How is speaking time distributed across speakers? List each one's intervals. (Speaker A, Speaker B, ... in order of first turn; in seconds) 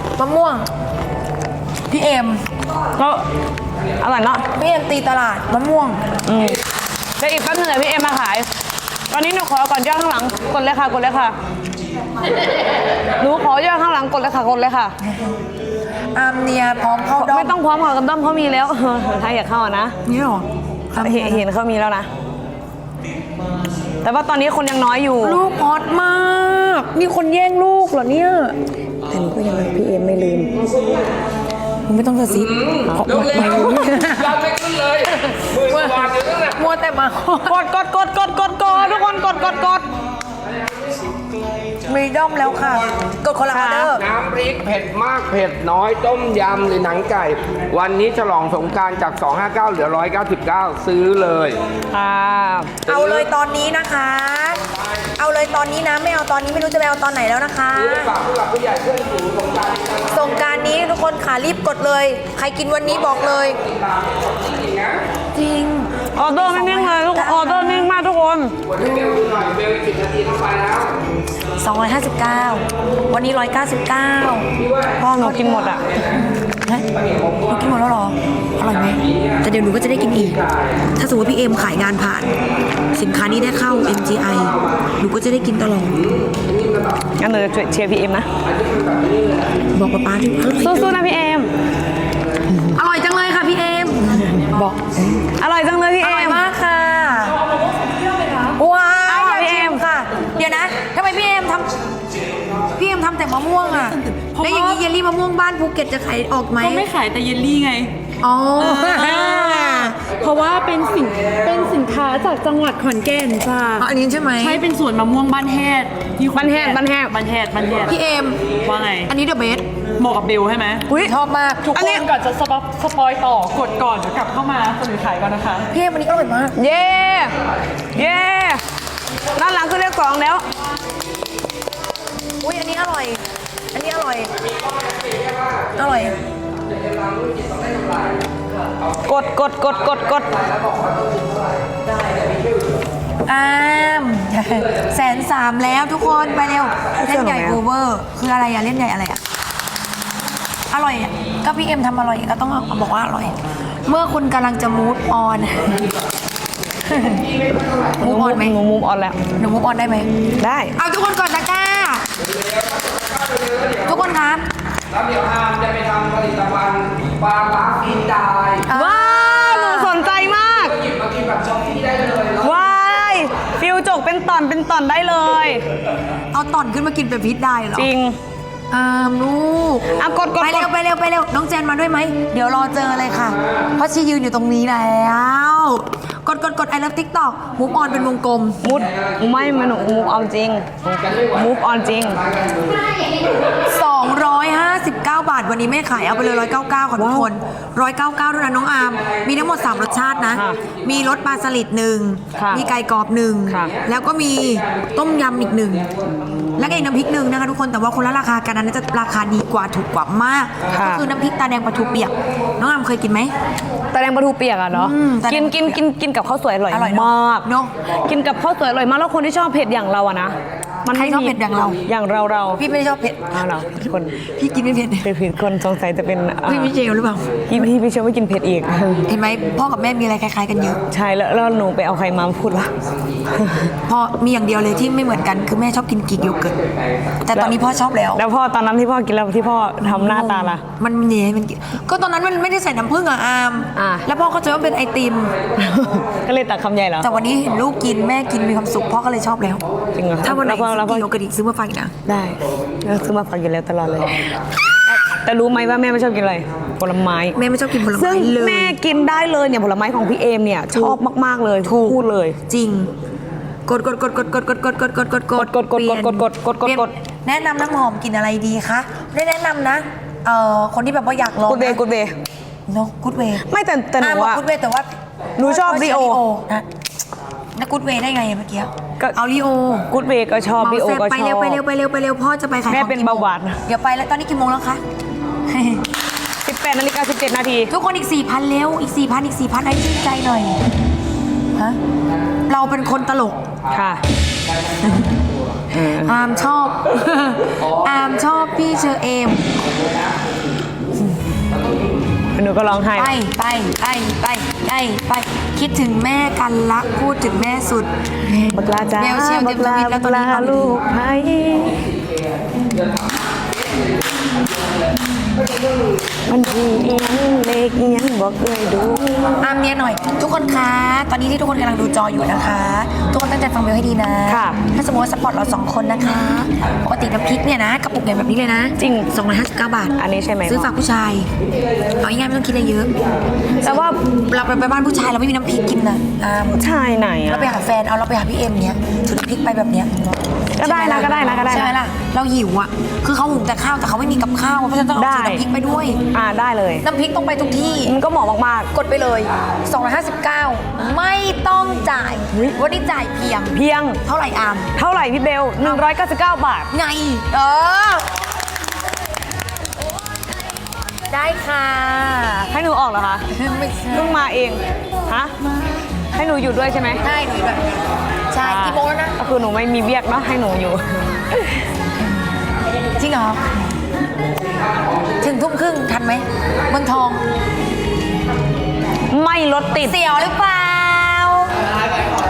Speaker A: 0.2-0.7, 1.9-2.4, 4.6-6.0, 16.1-17.5, 20.1-21.4, 25.2-28.6, 31.9-32.5, 33.1-34.4, 35.1-37.6, 41.9-44.0, 52.9-54.6, 55.2-58.1, 60.1-63.6, 65.3-67.9, 68.8-69.2, 71.6-74.5, 75.2-75.5, 76.5-76.9, 77.5-80.4, 81.0-82.3, 82.9-86.0, 89.7-91.0, 92.7-94.8, 96.0-97.4, 98.6-101.7, 102.8-106.9, 108.2-110.0, 113.8-114.6, 117.9-118.4, 119.0-119.7, 120.9-122.1, 125.7-126.6, 132.4-133.2, 133.7-134.3, 135.8-136.2, 143.3-149.2, 150.7-153.3, 153.9-155.9, 156.9-157.2, 158.0-158.6, 159.4-160.1, 160.8-162.1, 163.9-164.5, 168.7-170.0, 176.3-177.9, 178.7-188.8, 193.6-205.9, 206.6-213.3, 214.7-215.8, 216.7-217.7, 220.9-221.8, 222.6-223.3, 224.3-225.1, 226.5-227.3, 229.1-230.8, 233.9-236.6, 237.2-238.2, 239.9-245.4, 247.0-249.7, 250.2-251.9, 257.4-258.8, 260.7-261.0, 261.6-262.9, 263.7-271.8, 272.7-273.4, 274.0-276.6, 277.6-279.9, 280.6-284.8, 285.5-285.9, 287.7-290.6, 292.5-293.4, 295.9-299.5, 303.0-310.9, 319.4-331.3, 332.0-332.9, 333.6-336.6, 337.3-339.9, 340.6-346.0, 346.8-347.9, 348.7-354.7, 356.7-358.1, 361.1-362.5, 363.3-364.2, 367.0-367.8, 368.3-369.1, 373.0-373.4, 375.2-377.2, 379.8-381.5
Speaker B: 3.0-3.2, 4.0-4.5, 6.3-6.6, 7.2-8.5, 9.1-11.4, 13.2-14.9, 17.2-20.0, 21.0-22.1, 24.0-25.4, 29.1-30.6, 32.9-33.9, 37.5-39.9, 43.5-43.9, 51.9-52.8, 66.2-68.6, 75.0-75.8, 87.2-88.3, 90.6-91.5, 95.2-96.4, 99.1-99.8, 108.6-109.6, 116.3-117.1, 120.9-121.1, 126.6-127.3, 127.9-128.6, 129.4-130.4, 139.1-140.3, 147.0-147.6, 158.0-159.2, 160.4-160.8, 168.7-170.8, 172.4-175.7, 177.8-178.2, 180.0-180.7, 188.6-192.2, 196.9-197.3, 200.3-200.6, 202.3-202.7, 203.5-203.8, 210.7-211.1, 213.9-217.5, 218.0-222.6, 223.3-224.3, 225.0-226.7, 227.5-229.0, 230.9-232.7, 233.3-233.7, 238.2-240.6, 243.8-244.1, 245.6-247.1, 249.9-251.1, 252.1-254.3, 254.9-257.4, 257.9-262.4, 265.4-266.9, 271.4-272.1, 273.4-274.4, 275.4-276.2, 279.9-281.6, 282.7-283.6, 286.5-287.7, 293.7-294.0, 295.7-296.2, 302.4-303.1, 308.5-311.8, 316.3-319.4, 324.3-324.6, 328.8-329.1, 330.0-330.7, 333.6-334.0, 336.6-337.6, 340.6-341.7, 345.0-345.4, 346.1-346.9, 347.9-348.7, 352.3-352.6, 353.5-354.0, 354.8-356.7, 362.5-363.2, 363.9-365.3, 366.1-367.0, 368.4-371.6, 379.1-380.0
Speaker C: 30.6-31.1, 32.3-36.6, 43.9-51.6, 52.9-53.3, 57.8-60.5, 62.9-65.0, 68.7-71.0, 74.6-76.3, 76.9-77.7, 78.7-79.4, 80.3-80.8, 83.7-84.9, 86.0-87.1, 88.4-89.7, 110.0-111.7, 134.3-135.9, 136.7-142.8, 157.0-158.0, 162.2-164.1, 164.9-168.7, 170.5-173.0, 191.1-193.6, 232.8-233.2, 236.7-237.0, 245.7-246.1, 294.7-295.0, 301.5-301.8, 312.7-313.4, 315.4-315.9, 374.6-375.2
Speaker D: 97.5-98.6, 104.0-104.8, 106.6-107.9, 108.8-113.9, 114.4-118.0, 118.6-119.1, 120.0-120.9, 121.7-125.7